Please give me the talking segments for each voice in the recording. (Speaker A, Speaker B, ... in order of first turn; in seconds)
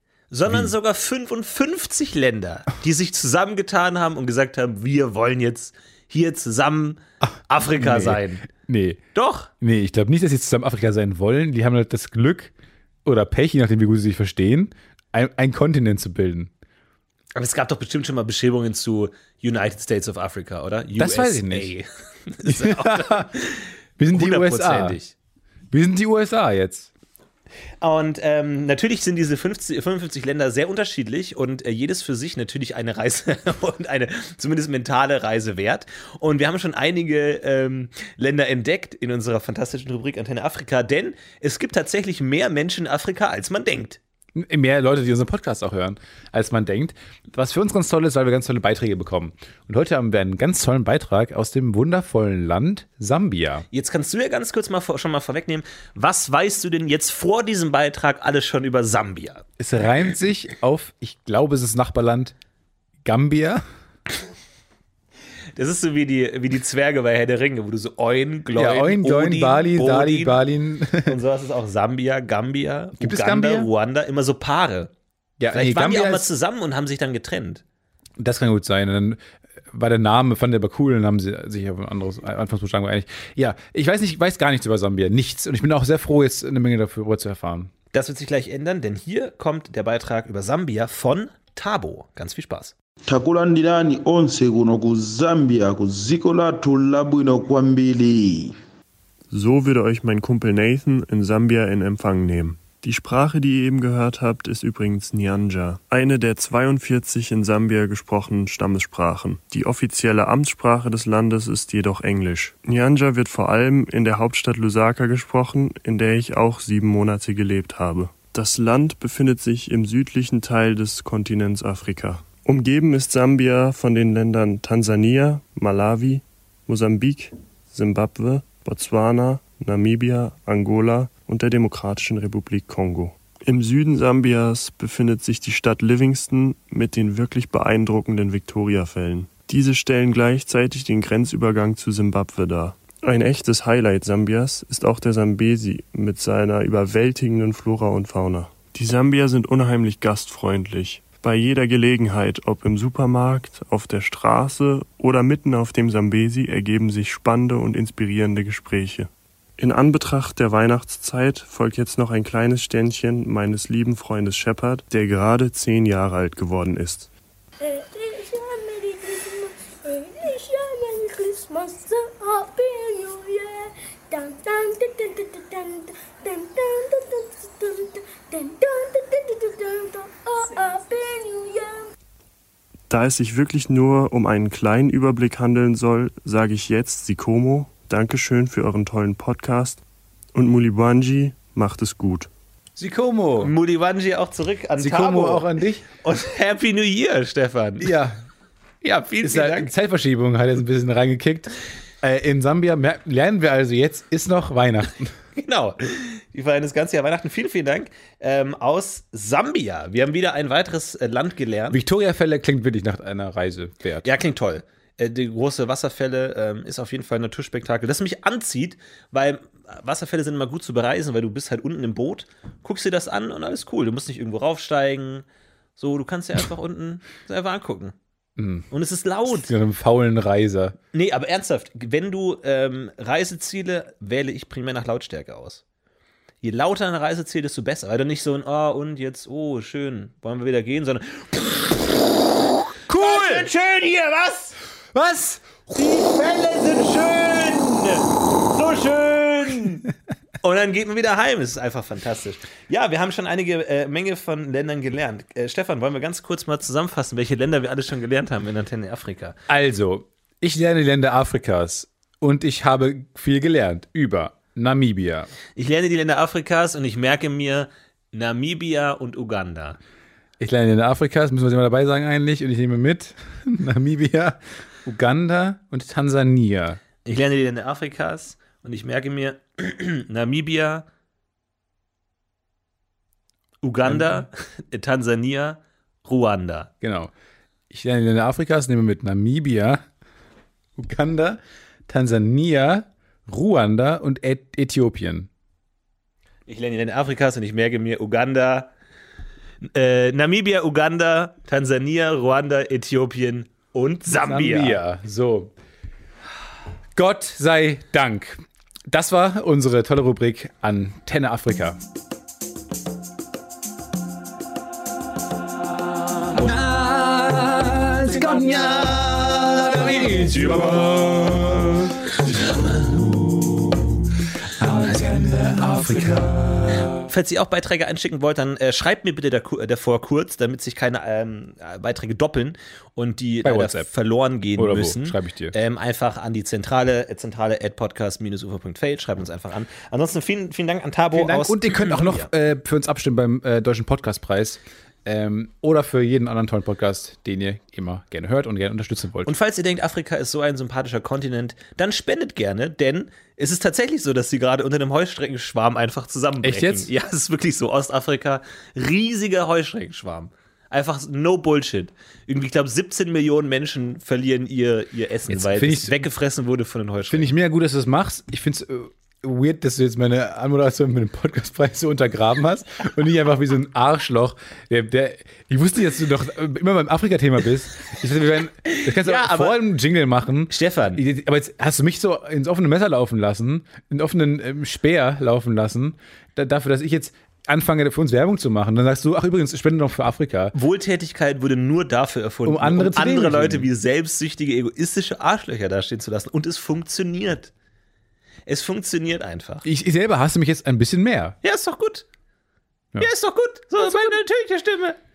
Speaker A: 0.3-8.5, 9.2-9.5, 17.4-25.1, 27.8-44.0, 53.7-59.4, 65.6-70.4, 71.0-74.9, 75.5-77.6, 87.9-92.7, 193.4-195.5, 196.0-198.0, 198.8-199.7, 205.4-211.8, 214.0-225.2, 225.8-227.9, 228.7-229.5, 230.9-235.6, 236.4-242.1, 242.9-244.6, 245.7-249.9, 250.4-259.4, 265.6-269.8, 277.0-280.9, 283.6-286.7, 296.5-298.7, 299.7-304.8, 327.0-342.3, 349.2-367.3, 378.7-379.6, 380.5-381.0, 390.5-397.5, 398.5-399.6, 401.4-402.1, 403.0-405.0
Speaker B: 7.7-9.0, 9.6-12.5, 13.1-16.5, 21.0-21.7, 22.4-23.3, 24.0-25.0, 25.7-26.9, 44.4-53.7, 59.6-62.3, 63.0-63.6, 68.5-71.2, 73.0-73.7, 75.4-76.3, 78.2-87.7, 192.8-193.5, 194.8-195.8, 197.8-198.2, 199.2-205.2, 211.7-214.1, 228.4-228.7, 229.3-230.8, 242.9-243.5, 244.9-245.5, 259.5-265.3, 270.4-276.8, 283.9-284.2, 286.8-287.1, 287.7-289.8, 290.8-295.3, 304.1-305.5, 306.9-311.8, 316.3-323.4, 324.6-326.9, 333.4-333.9, 334.6-335.6, 341.1-349.3, 356.4-356.9, 365.3-366.1, 367.1-390.6, 392.4-393.7, 399.6-401.4, 403.8-404.1
Speaker C: 93.1-98.6
Speaker D: 99.3-167.1, 182.9-189.8, 190.3-192.3
Speaker E: 167.6-181.9